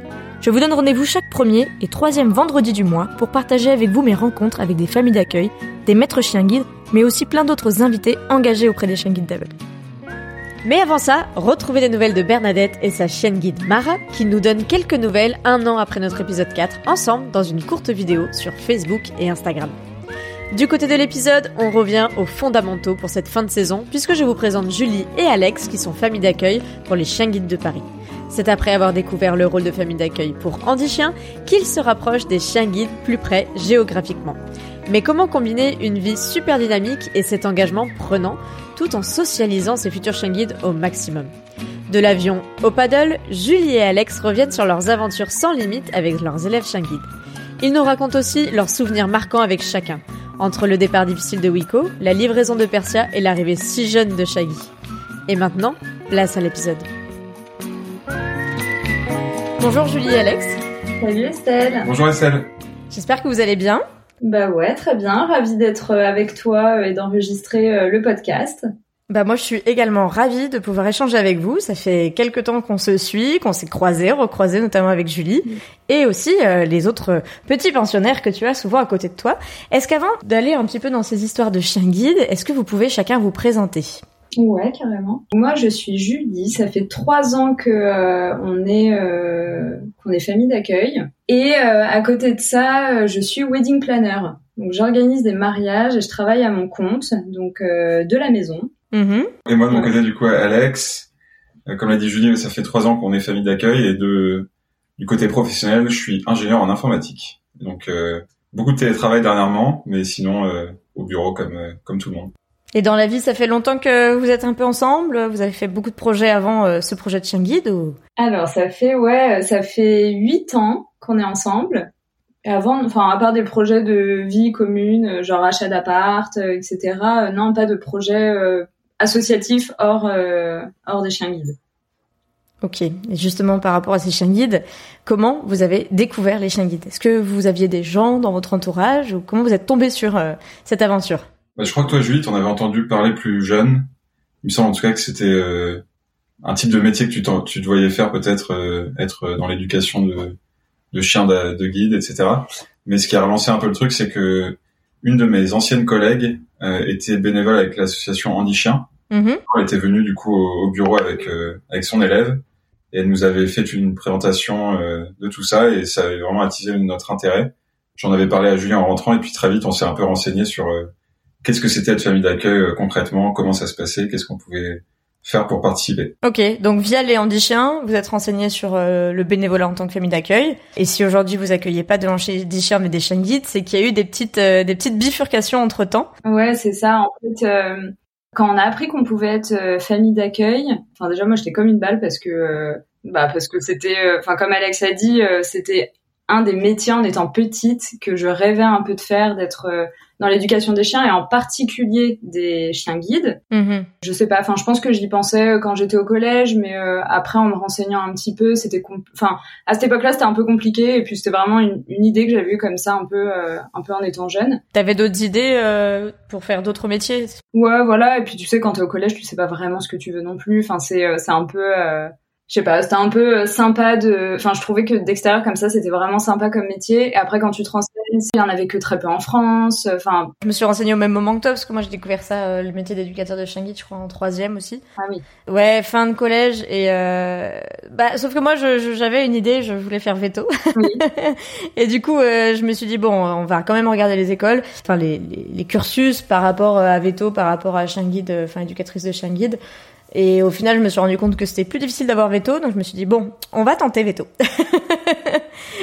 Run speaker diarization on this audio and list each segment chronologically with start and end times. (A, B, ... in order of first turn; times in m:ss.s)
0:00.4-0:09.6 A
0:10.6-0:19.7 A
0:20.5-0:41.3 A
0:41.9-0:47.1 A
0:47.6-0:54.7 A
0:55.3-0:56.9 A
0:59.6-1:00.6 A
1:01.0-1:01.9 B
1:01.8-1:02.5 C
1:02.9-1:03.8 A
1:04.2-1:08.7 B
1:09.1-1:24.0 A
1:24.4-1:38.7 B
1:38.9-1:39.3 A
1:39.5-1:41.1 C
1:41.6-1:44.5 C
1:45.0-1:52.3 C
1:52.7-1:58.0 A
1:58.2-2:01.9 B
2:02.4-2:11.6 B
2:12.6-2:21.2 A
2:21.6-2:23.9 C
2:24.4-2:25.8 C
2:26.4-2:30.4 C
2:30.9-2:38.9 C
2:39.1-2:39.4 A
2:39.5-2:42.4 C
2:42.9-2:50.9 C
2:51.4-2:56.1 C
2:56.2-3:06.1 A
3:06.2-3:23.4 B
3:23.5-3:23.9 A
3:24.0-3:34.6 B
3:34.7-3:37.4 A
3:37.5-3:50.3 B
3:50.4-3:54.8 A
3:55.0-3:55.2 B
3:55.5-4:09.6 A
4:00.7-4:01.0 B
4:10.1-4:15.4 A